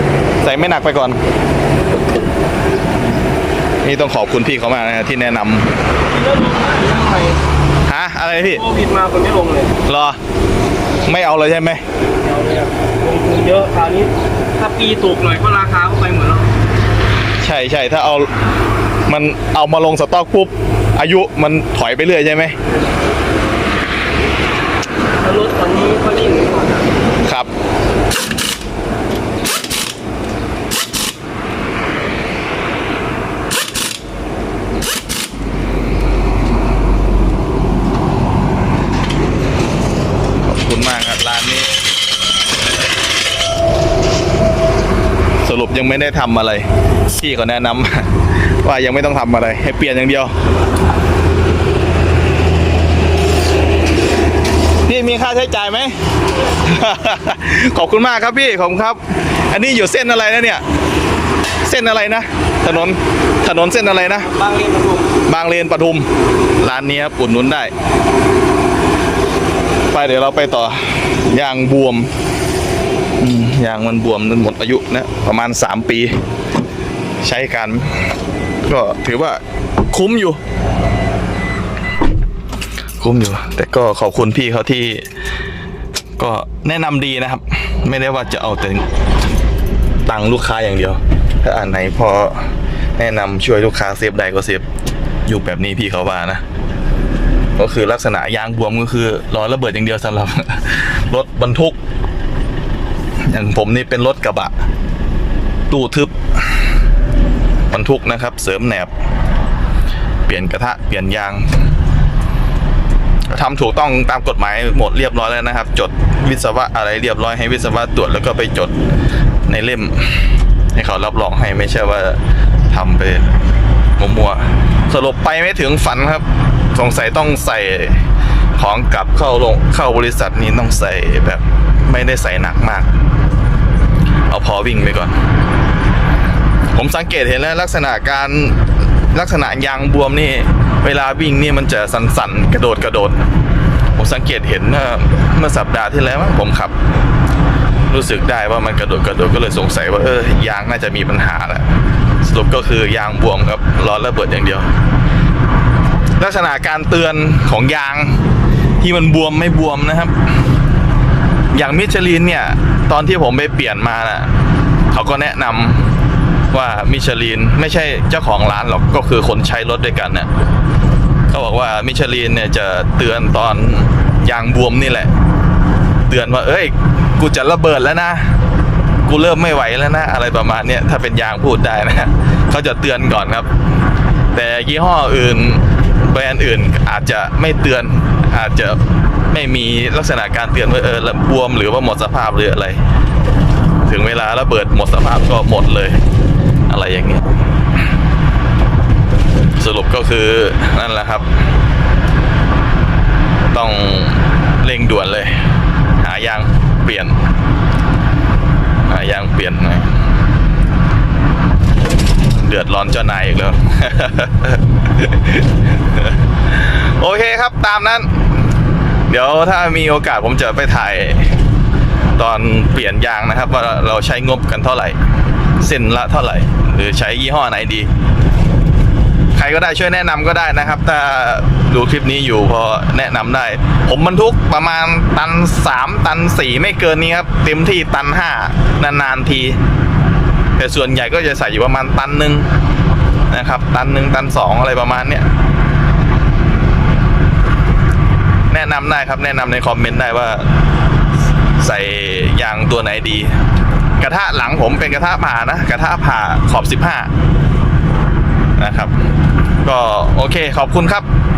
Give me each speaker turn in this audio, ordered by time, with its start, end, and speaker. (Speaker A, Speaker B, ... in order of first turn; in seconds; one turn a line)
Speaker A: 0.4-1.2
Speaker A: 3.8-5.7
Speaker B: 6.1-7.4
Speaker A: 7.8-8.6
Speaker B: 8.5-9.7
Speaker A: 9.8-10.2
Speaker A: 11.1-11.8
Speaker B: 12.2-16.5
Speaker A: 17.4-18.3
Speaker A: 19.1-22.5
Speaker B: 25.2-26.9
Speaker A: 27.2-27.5
Speaker A: 40.4-41.7
Speaker A: 45.4-50.3
Speaker A: 54.9-56.0
Speaker A: 56.5-60.6
Speaker A: 61.6-64.3
Speaker B: 64.2-65.2
Speaker A: 65.2-66.1
Speaker A: 66.6-67.7
Speaker A: 69.9-72.1
Speaker A: 73.2-76.2
Speaker A: 77.2-78.1
Speaker A: 78.7-79.4
Speaker A: 79.9-80.4
Speaker A: 83.0-85.1
Speaker A: 86.2-88.9
Speaker A: 90.0-94.7
Speaker A: 95.2-96.4
Speaker A: 97.6-101.8
Speaker A: 103.3-104.5
Speaker A: 105.7-106.6
Speaker A: 107.7-108.9
Speaker A: 110.3-111.5
Speaker A: 113.3-118.7
Speaker A: 119.5-123.4
Speaker A: 124.0-128.0
Speaker A: 128.6-132.9
Speaker A: 134.3-135.2
Speaker A: 136.7-143.2
Speaker A: 143.9-146.7
Speaker A: 147.9-151.7
Speaker A: 152.2-154.7
Speaker A: 156.2-158.2
Speaker A: 158.8-160.1
Speaker A: 161.5-164.3
Speaker A: 164.9-165.8
Speaker A: 166.5-170.3
Speaker A: 171.3-175.1
Speaker A: 176.1-178.3
Speaker A: 179.1-183.5
Speaker A: 184.3-188.8
Speaker A: 189.3-192.8
Speaker A: 193.8-196.0
Speaker A: 196.7-197.3
Speaker A: 199.6-201.3
Speaker A: 203.5-205.4
Speaker A: 206.0-207.2
Speaker A: 208.9-209.9
Speaker A: 212.3-218.4
Speaker A: 219.1-221.3
Speaker A: 222.2-225.0
Speaker A: 225.6-227.9
Speaker A: 229.3-239.6
Speaker A: 240.6-242.5
Speaker A: 243.3-245.3
Speaker A: 248.5-250.4
Speaker A: 251.6-253.4
Speaker A: 254.0-257.1
Speaker A: 258.6-258.9
Speaker A: 259.6-261.1